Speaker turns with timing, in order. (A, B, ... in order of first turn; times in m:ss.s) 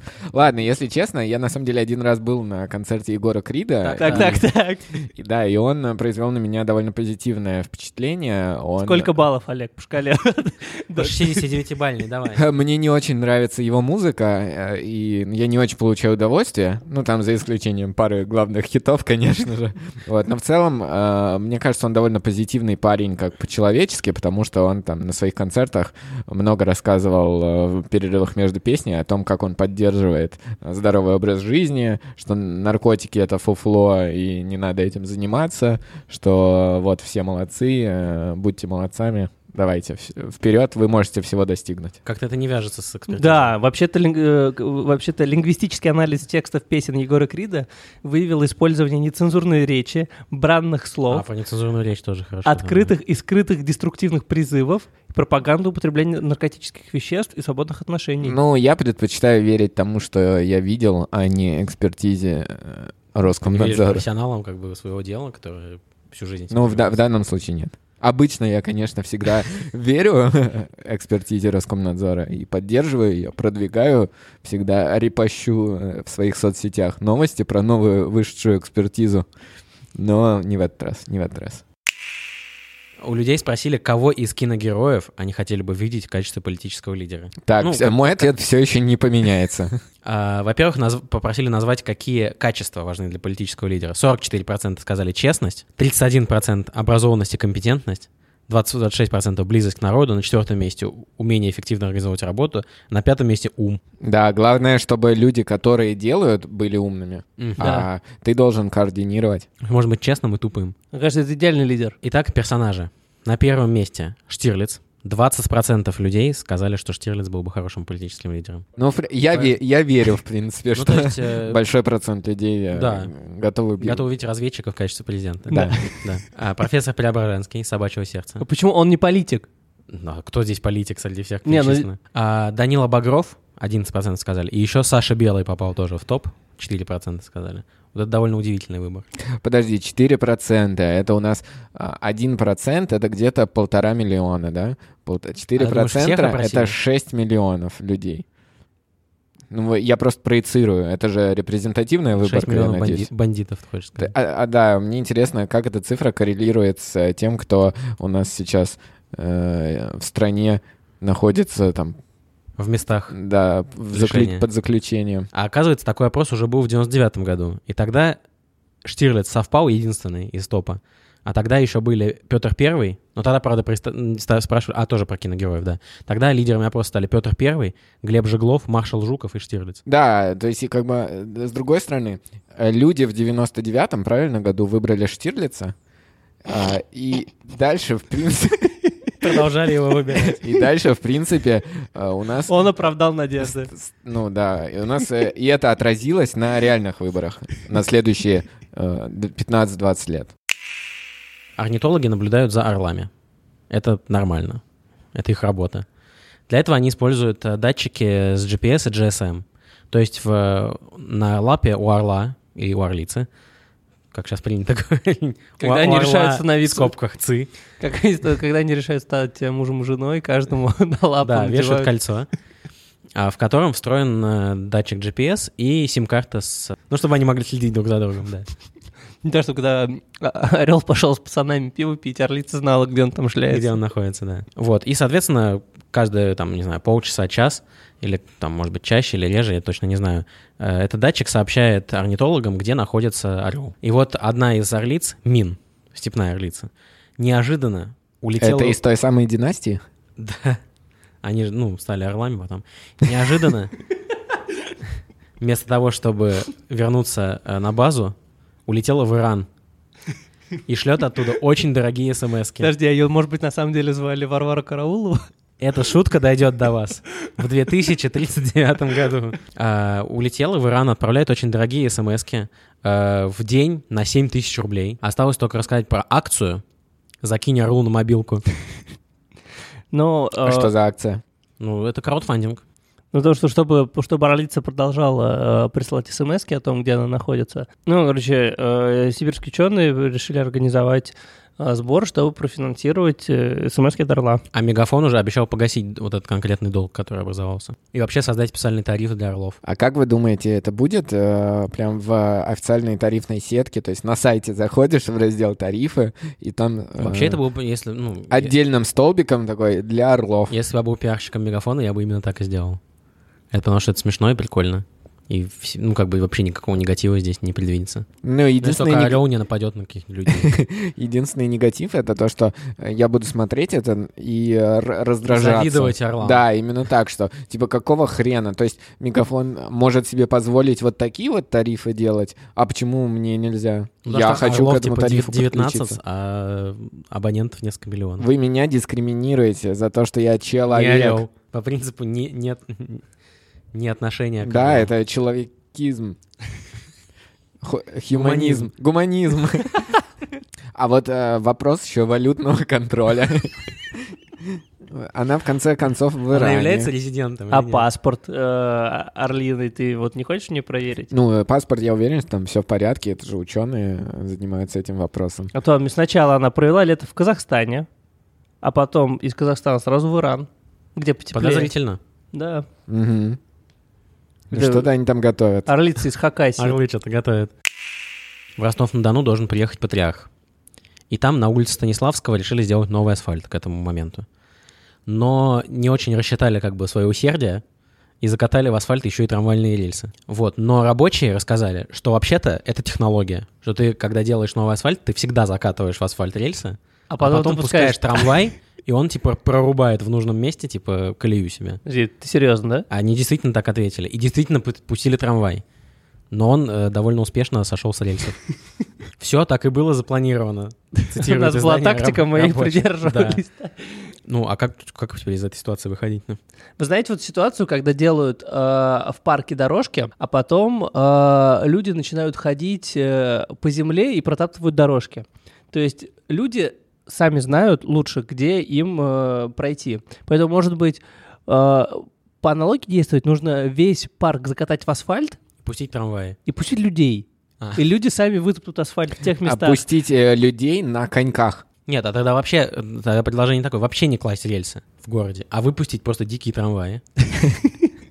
0:00.3-0:04.4 A
0:03.8-0:04.8 B
0:04.0-0:04.4 C
0:05.1-0:09.1 A
0:08.8-0:11.5 B
0:11.0-0:12.4 C
0:12.3-0:42.0 A
0:42.0-0:43.6 C
0:43.1-0:51.2 B
0:51.1-0:52.9 C
0:52.5-0:58.4 B
0:58.2-1:04.0 A
1:03.5-1:07.0 C
1:06.5-1:19.3 A
1:20.0-1:21.6 A
1:23.0-1:28.3 C
1:27.4-1:29.8 A
1:30.0-1:43.8 C
1:44.0-1:49.5 A
1:47.4-1:47.8 C
1:47.6-1:47.9 B
1:49.6-1:50.8 C
1:50.9-1:52.0 B
1:52.0-1:58.6 C
1:58.8-2:04.0 A
2:00.7-2:01.6 C
2:02.7-2:03.1 C
2:03.8-2:08.4 C
2:05.5-2:05.8 A
2:05.5-2:05.8 B
2:08.4-2:09.5 B
2:09.9-2:19.1 C
2:11.5-2:11.9 B
2:19.4-2:28.2 A
2:25.6-2:26.8 C
2:29.5-2:33.1 A
2:32.2-2:34.1 C
2:34.0-2:42.0 A
2:42.6-2:43.2 C
2:43.1-2:45.3 A
2:43.9-2:44.4 C
2:45.3-2:48.2 C
2:48.8-2:59.8 C
2:59.9-3:05.7 A
3:06.4-3:08.8 A
3:09.2-3:10.4 C
3:10.4-3:12.6 A
3:12.5-3:13.7 B
3:13.7-3:20.3 A
3:21.6-3:23.1 C
3:23.7-3:24.6 C
3:25.2-3:25.8 C
3:26.5-3:33.3 C
3:34.1-3:37.5 C
3:35.6-3:36.9 B
3:37.8-3:41.9 B
3:41.2-3:42.3 C
3:43.2-3:48.5 C
3:49.2-3:53.8 B
3:53.5-4:08.8 C
4:08.4-4:09.8 A
4:10.2-4:10.6 C
4:11.2-4:13.8 C
4:15.4-4:18.1 C
4:18.7-4:19.5 C
4:20.7-4:22.7 C
4:22.6-4:25.3 B
4:25.6-4:36.6 C
4:37.2-4:38.4 C
4:39.9-4:40.7 B
4:40.4-4:41.2 A
4:41.6-4:42.6 C
4:43.1-4:54.4 B
4:54.5-4:59.6 C
4:59.6-5:07.4 A
5:07.0-5:08.5 C
5:08.3-5:10.6 A
5:10.5-5:12.8 C
5:13.5-5:18.1 C
5:18.2-5:19.2 A
5:18.6-5:20.6 C
5:20.3-5:36.0 A
5:25.3-5:26.5 C
5:34.0-5:38.3 C
5:38.2-5:41.2 A
5:40.7-5:43.0 C
5:43.7-5:44.9 C
5:44.4-5:46.2 A
5:47.6-5:49.9 A
5:48.1-5:48.7 C
5:50.8-5:54.1 A
5:54.9-5:56.9 A
5:56.3-5:57.9 C
5:57.5-6:01.1 B
6:01.1-6:05.5 A
6:05.5-6:07.9 B
6:08.6-6:11.7 B
6:11.3-6:12.0 C
6:12.3-6:12.7 B
6:12.9-6:13.4 A
6:14.5-6:15.7 A
6:14.5-6:14.9 B
6:15.7-6:16.8 B
6:16.6-6:17.5 C
6:18.6-6:20.3 C
6:21.1-6:24.2 C
6:25.1-6:27.6 C
6:28.2-6:41.8 C
6:37.1-6:38.3 B
6:41.8-6:42.9 B
6:42.9-6:45.6 C
6:46.3-6:48.5 C
6:49.2-6:53.4 C
6:51.0-6:54.0 B
6:54.3-6:56.4 C
6:56.8-7:15.4 B
7:15.6-7:16.4 C
7:16.5-7:19.8 B
7:19.4-7:21.6 A
7:21.9-7:27.0 C